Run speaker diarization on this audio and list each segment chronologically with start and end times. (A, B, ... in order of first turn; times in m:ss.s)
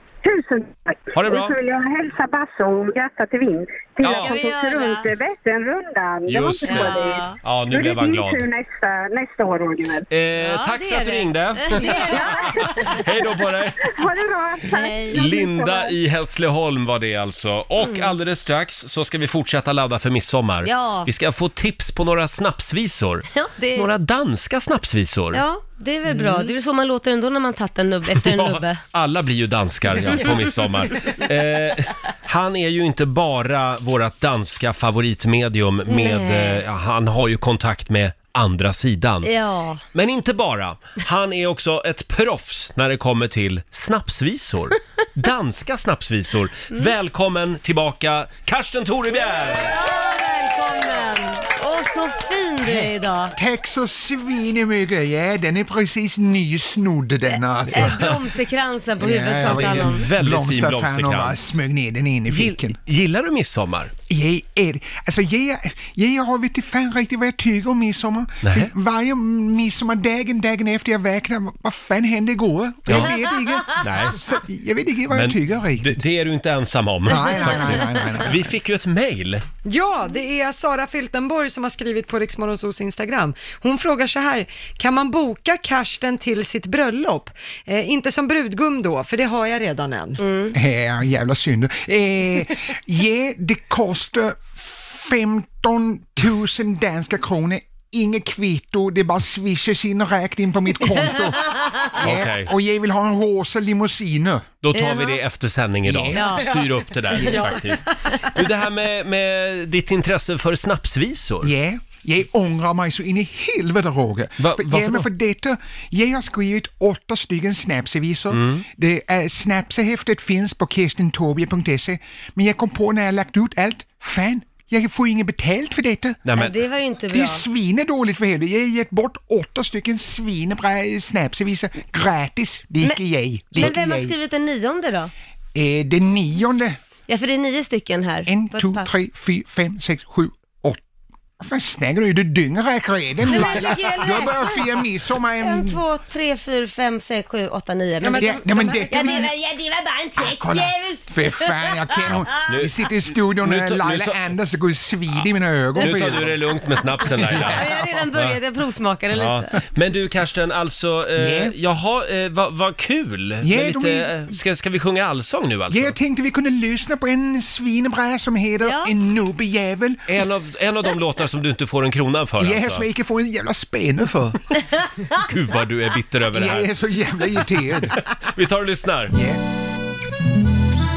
0:00.2-0:10.1 A
0:01.1-0:01.6 B
0:04.0-0:04.4 B
0:04.0-0:05.1 C
0:06.3-0:08.4 B
0:06.6-0:07.4 C
0:10.1-0:13.9 B
0:10.4-0:13.3 C
0:12.1-0:12.7 A
0:13.8-0:15.9 A
0:14.7-0:15.3 C
0:15.1-0:25.4 B
0:17.8-0:18.1 C
0:20.6-0:21.1 C
0:23.3-0:23.9 C
0:25.3-0:28.8 C
0:26.1-0:26.5 D
0:28.1-0:39.3 B
0:35.9-0:36.6 C
0:39.2-0:39.8 C
0:39.9-0:49.8 B
0:49.6-0:53.3 C
0:53.4-0:58.1 E
0:57.7-1:00.0 C
0:57.7-0:58.2 B
0:59.0-1:02.8 E
0:59.4-1:01.4 B
1:02.3-1:03.9 B
1:04.1-1:16.0 E
1:08.4-1:08.7 B
1:12.9-1:13.1 B
1:13.7-1:14.4 B
1:15.1-1:19.4 B
1:17.1-1:18.5 E
1:19.6-1:30.2 D
1:30.2-1:30.6 C
1:30.5-1:44.5 E
1:42.0-1:42.5 B
1:44.6-1:51.5 B
1:44.7-1:45.2 C
1:45.8-1:46.4 E
1:46.1-1:46.5 C
1:47.2-1:47.6 C
1:51.4-2:06.2 E
1:54.4-1:55.1 B
1:58.3-1:58.6 B
2:06.2-2:06.6 B
2:06.3-2:07.4 C
2:07.1-2:14.1 E
2:13.5-2:15.1 C
2:15.5-2:16.8 E
2:17.1-2:18.9 C
2:18.2-2:20.8 E
2:21.4-2:25.8 E
2:23.3-2:24.8 C
2:25.4-2:32.1 C
2:28.0-2:29.1 D
2:28.2-2:29.3 E
2:30.2-2:36.5 E
2:32.1-2:34.3 B
2:35.8-2:36.0 C
2:35.8-2:38.4 B
2:37.1-2:37.5 E
2:37.2-2:39.5 C
2:39.1-2:46.0 B
2:41.2-2:41.5 E
2:43.4-2:44.3 E
2:45.7-2:50.0 E
2:48.6-2:48.9 C
2:50.1-2:52.8 B
2:52.4-2:54.4 E
2:55.1-2:56.7 B
2:56.3-2:58.0 E
2:57.6-2:59.1 B
2:59.1-2:59.4 E